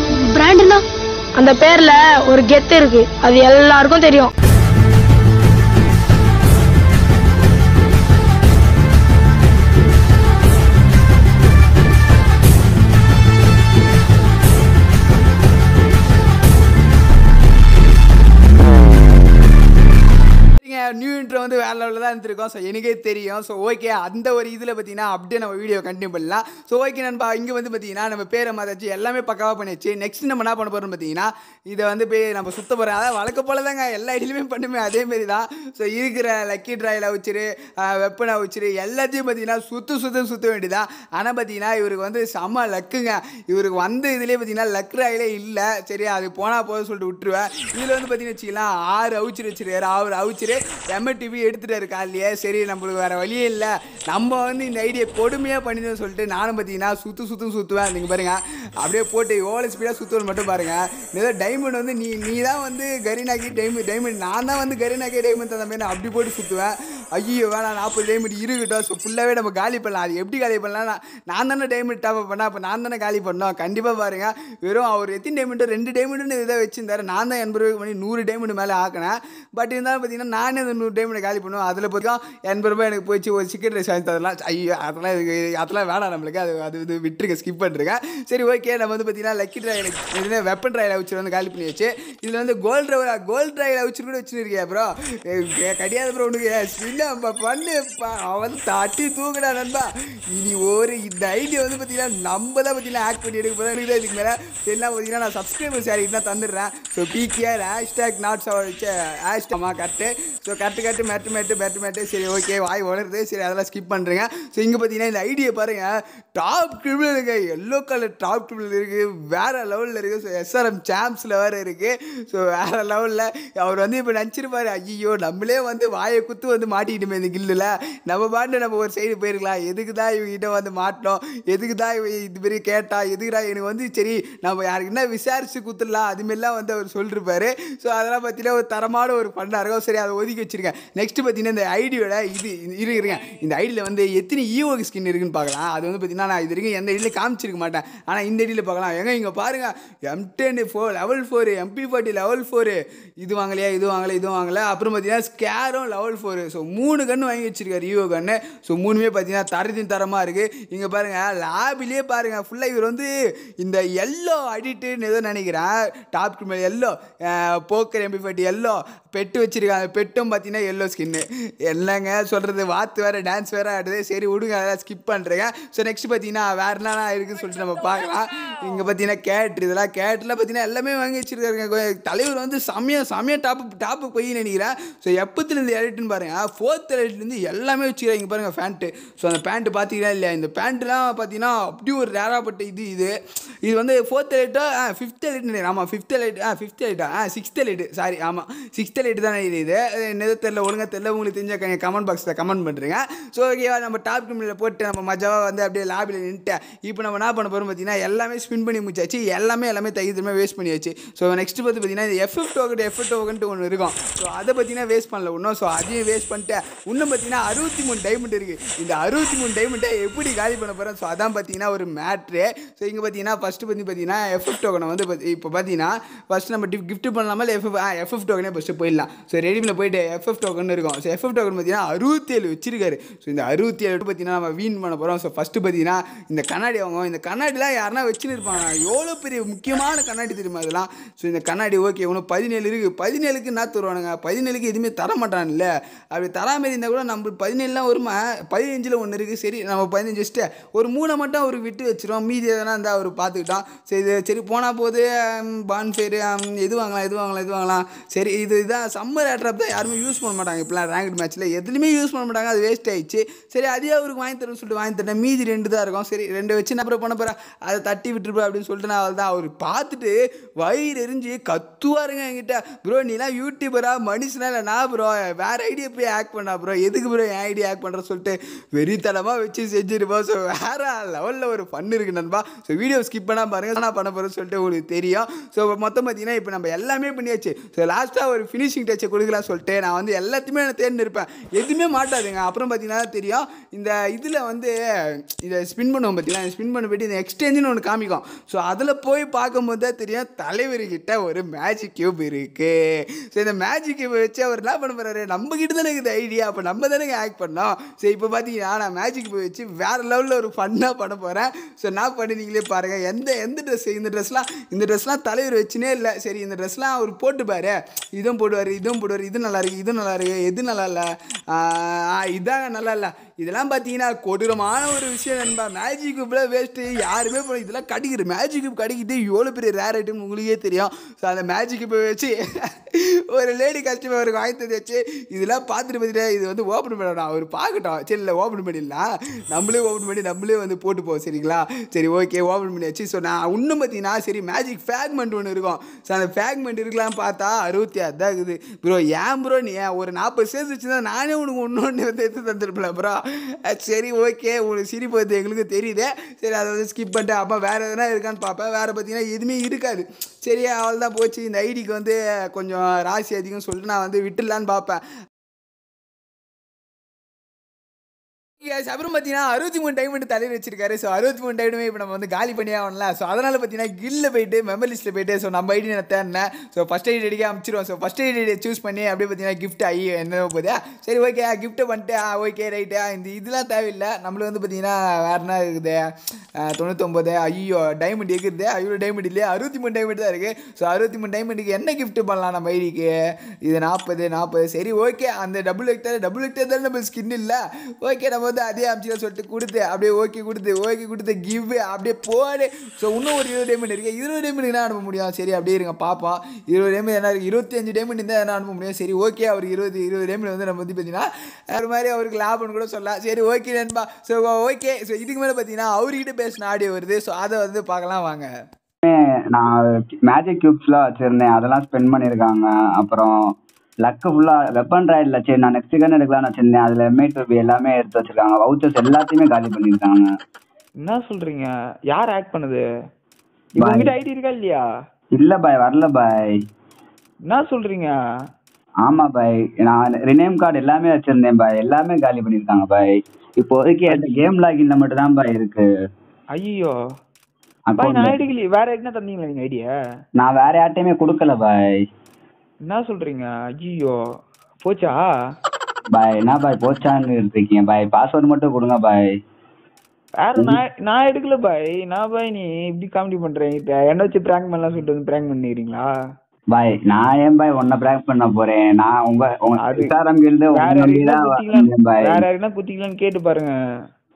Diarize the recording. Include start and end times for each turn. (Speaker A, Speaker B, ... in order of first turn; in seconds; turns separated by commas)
Speaker A: 0.2-0.8, Speaker A: 1.4-4.3, Speaker B: 20.6-163.1, Speaker B: 163.6-193.1, Speaker B: 193.6-294.7, Speaker B: 295.4-302.8, Speaker B: 303.3-365.0, Speaker B: 368.6-386.0, Speaker B: 386.6-393.1, Speaker B: 393.6-418.5, Speaker C: 419.0-423.3, Speaker C: 424.0-430.3, Speaker D: 431.0-432.8, Speaker C: 433.8-434.1, Speaker D: 433.8-434.8, Speaker C: 435.4-436.6, Speaker D: 437.5-438.1, Speaker C: 439.0-445.9, Speaker D: 444.1-444.3, Speaker D: 446.6-446.9, Speaker C: 447.9-448.4, Speaker D: 448.0-449.9, Speaker C: 450.4-452.0, Speaker D: 452.9-454.1, Speaker D: 454.8-455.3, Speaker C: 456.1-459.4, Speaker D: 460.4-466.1, Speaker C: 460.6-460.8, Speaker C: 466.7-472.4, Speaker D: 469.8-470.1, Speaker D: 470.7-473.7